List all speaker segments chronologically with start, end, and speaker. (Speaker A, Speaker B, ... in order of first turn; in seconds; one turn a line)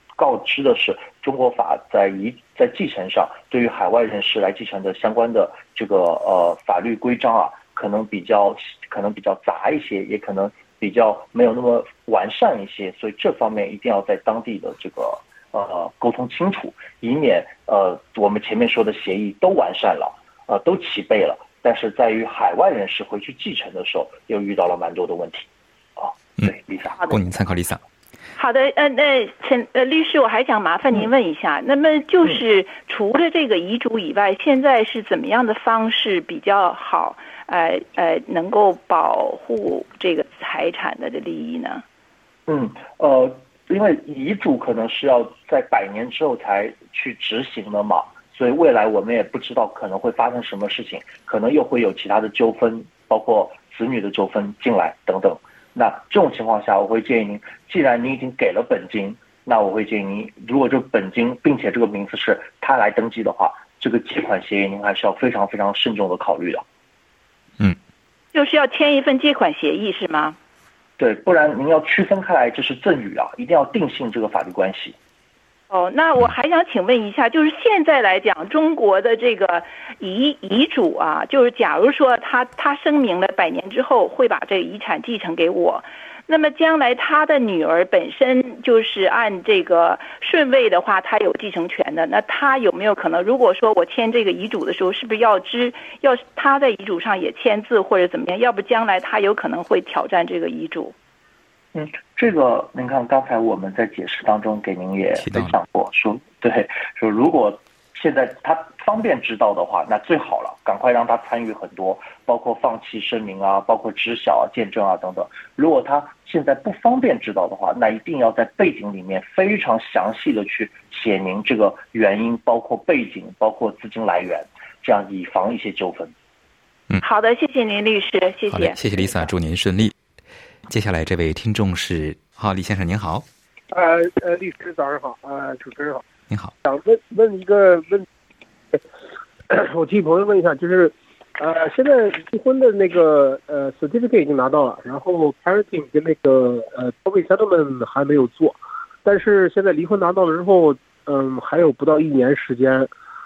Speaker A: 0.2-26.9
Speaker B: 27.1-27.8
Speaker C: 28.4-41.8
Speaker A: 42.5-66.7
Speaker C: 68.3-70.4
Speaker A: 71.0-75.0
Speaker C: 75.7-100.9
Speaker A: 101.8-126.1
Speaker B: 105.2-105.5
Speaker C: 127.0-129.3
Speaker B: 128.5-129.9
Speaker B: 130.7-133.3
Speaker D: 133.7-136.0
Speaker B: 136.3-136.5
Speaker D: 136.7-138.1
Speaker D: 139.5-152.9